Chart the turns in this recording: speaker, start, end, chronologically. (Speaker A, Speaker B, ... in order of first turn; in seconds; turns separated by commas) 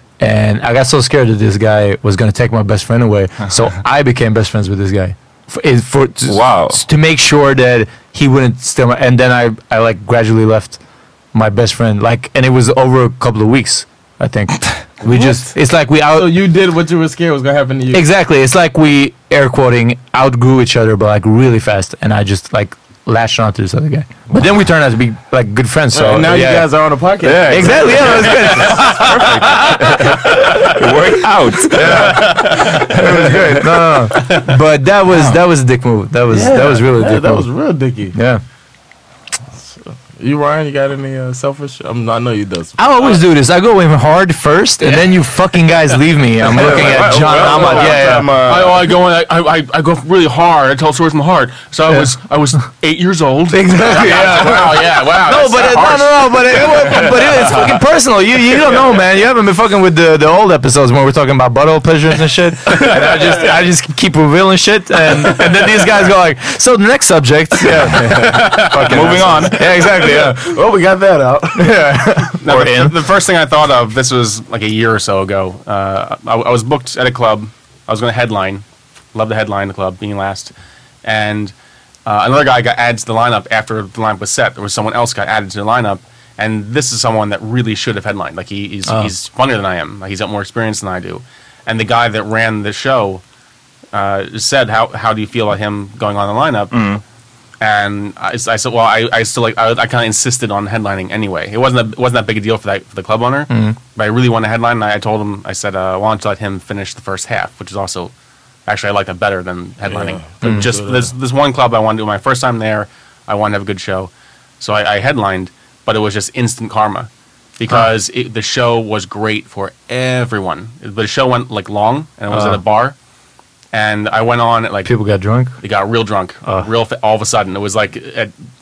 Speaker A: 0.2-10.8, Speaker B: 6.2-6.8, Speaker A: 11.3-16.3, Speaker C: 15.0-18.0, Speaker A: 17.9-26.7, Speaker C: 25.9-30.7, Speaker B: 27.2-33.5, Speaker A: 27.4-28.9, Speaker D: 28.7-28.9, Speaker C: 31.7-32.2, Speaker D: 31.9-32.9, Speaker A: 32.9-37.5, Speaker B: 35.1-35.4, Speaker C: 36.3-38.1, Speaker A: 38.1-38.4, Speaker C: 39.7-42.8, Speaker A: 42.8-48.3, Speaker D: 44.8-45.3, Speaker C: 46.5-48.9, Speaker D: 46.5-57.6, Speaker A: 53.5-70.4, Speaker C: 53.9-54.8, Speaker C: 63.0-63.4, Speaker D: 68.2-68.6, Speaker C: 68.8-72.3, Speaker B: 68.9-69.7, Speaker A: 71.6-72.9, Speaker D: 72.4-80.5, Speaker D: 81.0-81.5, Speaker D: 82.0-93.2, Speaker D: 93.9-96.8, Speaker B: 96.7-97.0, Speaker D: 97.6-108.1, Speaker A: 103.5-103.8, Speaker D: 108.7-122.9, Speaker C: 109.8-111.1, Speaker A: 110.4-110.7, Speaker A: 122.3-122.6, Speaker D: 123.7-124.9, Speaker A: 124.8-125.5, Speaker D: 125.6-128.3